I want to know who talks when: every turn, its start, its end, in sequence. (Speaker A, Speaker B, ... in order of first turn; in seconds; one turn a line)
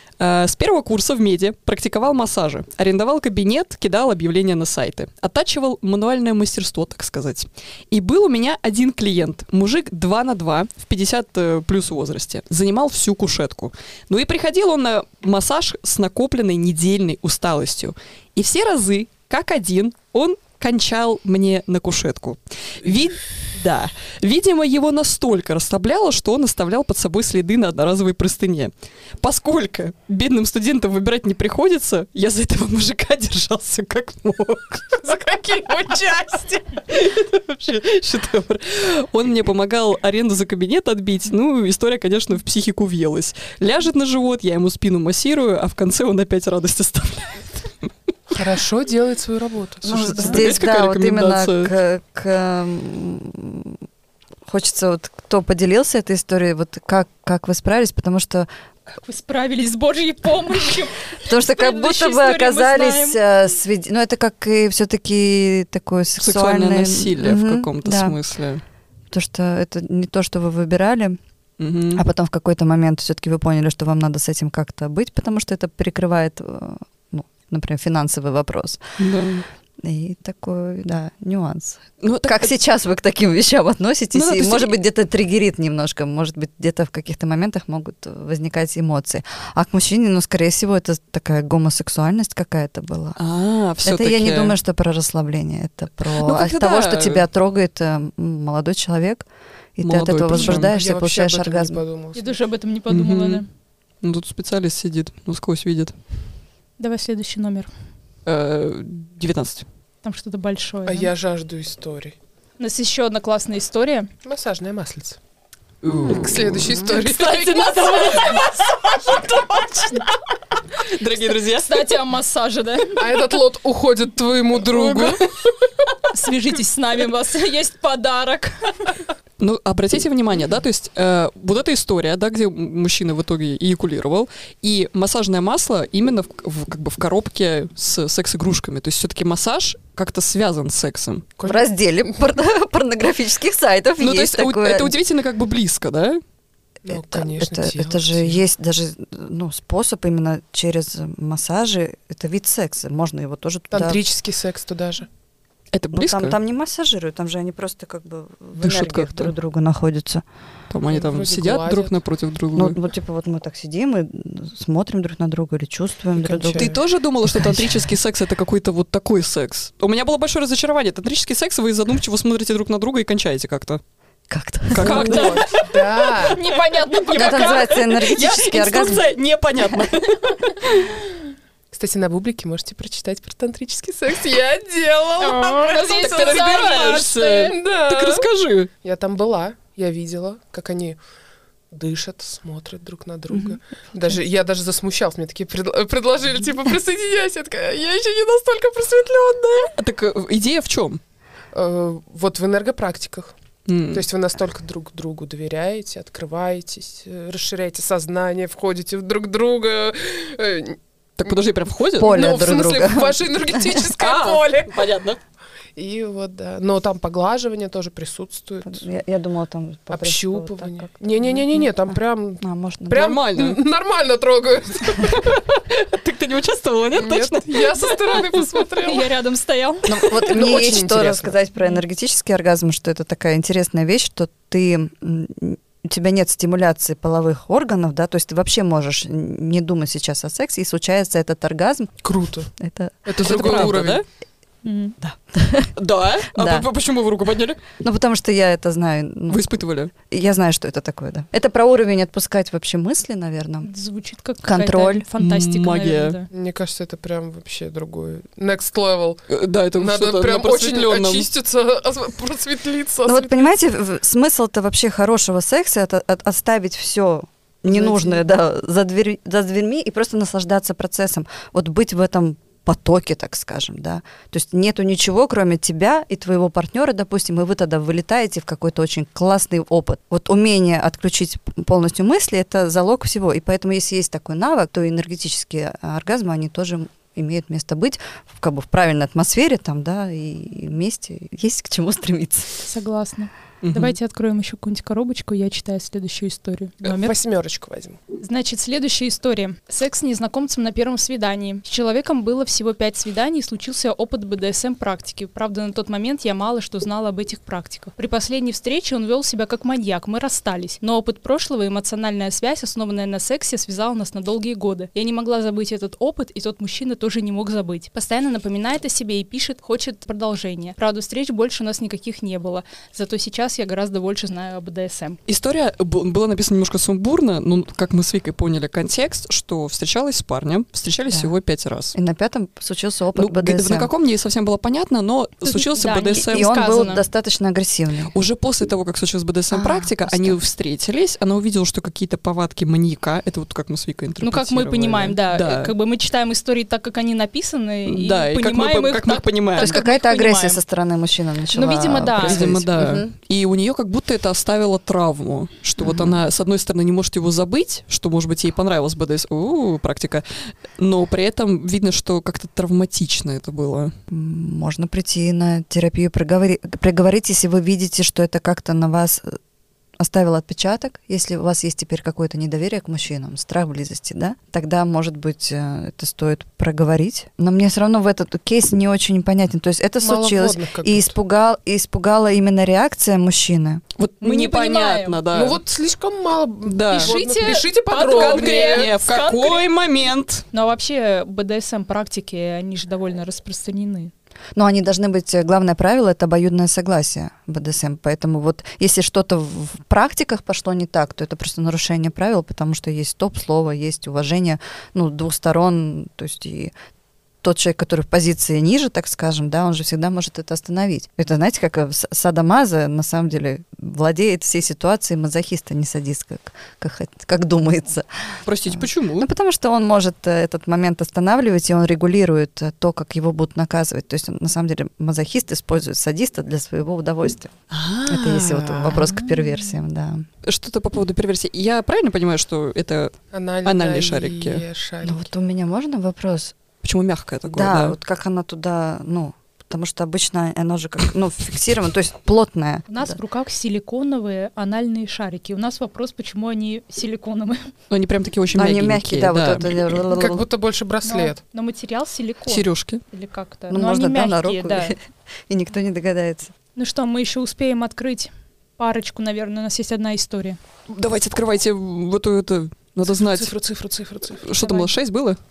Speaker A: 0.2-35.1
Speaker B: 35.0-36.7
Speaker A: 36.8-47.7
Speaker B: 48.3-50.4
Speaker C: 49.8-53.8
Speaker A: 49.9-51.7
Speaker C: 54.5-58.5
Speaker D: 59.0-63.2
Speaker C: 61.2-68.2
Speaker A: 66.2-68.6
Speaker C: 69.1-71.2
Speaker A: 71.6-72.0
Speaker C: 71.9-78.8
Speaker A: 79.0-79.5
Speaker C: 79.8-93.2
Speaker A: 82.0-82.5
Speaker A: 84.1-84.8
Speaker A: 93.2-94.6
Speaker C: 93.8-99.2
Speaker A: 96.2-97.2
Speaker C: 99.8-101.8
Speaker A: 99.8-100.7
Speaker B: 100.4-102.4
Speaker D: 102.2-103.5
Speaker A: 102.9-103.4
Speaker A: 104.0-106.0
Speaker D: 106.8-107.7
Speaker A: 108.3-109.7
Speaker D: 110.0-111.1
Speaker B: 110.9-112.2
Speaker D: 112.6-114.1
Speaker B: 114.2-115.2
Speaker A: 115.8-120.1
Speaker B: 116.1-118.4
Speaker D: 116.9-118.6
Speaker A: 120.7-121.9
Speaker D: 121.4-123.1
Speaker B: 123.0-125.3
Speaker A: 124.8-125.2
Speaker D: 126.1-128.9
Speaker A: 129.4-141.3
Speaker B: 141.4-141.7
Speaker C: 141.4-144.9
Speaker A: 144.0-146.2
Speaker B: 146.9-148.4
Speaker C: 146.9-154.0
Speaker B: 153.7-155.1
Speaker A: 155.7-156.4
Speaker C: 155.9-160.2
Speaker A: 158.6-159.3
Speaker A: 160.7-162.8
Speaker B: 160.9-162.0
Speaker C: 162.6-166.8
Speaker B: 166.2-166.7
Speaker A: 166.6-173.8
Speaker C: 167.3-167.9
Speaker C: 174.3-175.3
Speaker A: 174.7-181.0
Speaker D: 174.8-175.6
Speaker B: 174.8-176.4
Speaker D: 176.3-177.8
Speaker C: 177.1-179.1
Speaker B: 181.7-188.3
Speaker D: 185.2-187.4
Speaker A: 185.7-188.7
Speaker B: 188.8-191.0
Speaker B: 191.7-199.7
Speaker A: 199.8-201.0
Speaker B: 201.5-203.3
Speaker A: 203.7-204.1
Speaker B: 203.9-211.3
Speaker A: 211.2-212.4
Speaker C: 212.0-213.2
Speaker B: 212.0-214.7
Speaker A: 213.9-215.2
Speaker B: 215.8-218.8
Speaker C: 218.7-223.2
Speaker B: 219.9-225.4
Speaker A: 222.9-223.6
Speaker A: 225.0-228.4
Speaker B: 226.9-229.1
Speaker D: 228.8-230.1
Speaker C: 229.9-241.9
Speaker B: 229.9-231.4
Speaker B: 242.0-242.5
Speaker C: 242.6-243.9
Speaker B: 243.1-244.0
Speaker A: 243.2-244.1
Speaker D: 244.6-245.0
Speaker C: 245.0-245.7
Speaker A: 245.8-247.6
Speaker C: 246.3-246.7
Speaker C: 247.8-249.5
Speaker A: 249.3-249.9
Speaker C: 250.1-253.7
Speaker D: 253.6-256.3
Speaker C: 254.4-255.1
Speaker A: 255.2-256.2
Speaker B: 256.3-263.5
Speaker A: 259.3-261.3
Speaker C: 263.1-292.7
Speaker B: 267.6-268.2
Speaker D: 292.7-297.2
Speaker A: 293.6-294.0
Speaker B: 296.9-298.0
Speaker D: 298.2-325.2
Speaker A: 325.3-331.9
Speaker C: 331.9-333.9
Speaker A: 333.2-336.5
Speaker D: 335.4-337.0
Speaker C: 336.2-338.1
Speaker A: 338.1-345.7
Speaker C: 339.5-340.4
Speaker D: 344.2-350.6
Speaker A: 347.9-349.8
Speaker C: 349.6-353.1
Speaker D: 351.5-352.5
Speaker A: 352.1-360.2
Speaker C: 355.8-356.2
Speaker A: 360.8-363.9
Speaker C: 364.1-369.4
Speaker C: 370.0-383.8
Speaker B: 380.0-381.1
Speaker A: 384.0-385.6
Speaker D: 384.2-385.2
Speaker B: 385.3-388.9
Speaker A: 386.6-387.2
Speaker D: 386.9-389.6
Speaker A: 388.1-390.5
Speaker D: 390.5-394.1
Speaker C: 394.6-406.7
Speaker C: 407.4-427.5
Speaker A: 418.5-419.3
Speaker A: 427.7-429.5
Speaker C: 428.1-430.3
Speaker A: 430.4-434.6
Speaker B: 433.3-435.2
Speaker C: 435.0-436.6
Speaker A: 436.8-437.9
Speaker C: 437.5-443.2
Speaker D: 442.9-447.7
Speaker A: 447.9-450.0
Speaker C: 448.5-450.4
Speaker B: 450.1-451.4
Speaker D: 451.1-455.0
Speaker A: 452.5-453.0
Speaker C: 453.7-456.5
Speaker D: 456.8-460.6
Speaker A: 460.9-463.6
Speaker B: 463.1-464.5
Speaker A: 464.4-465.4
Speaker D: 464.6-464.9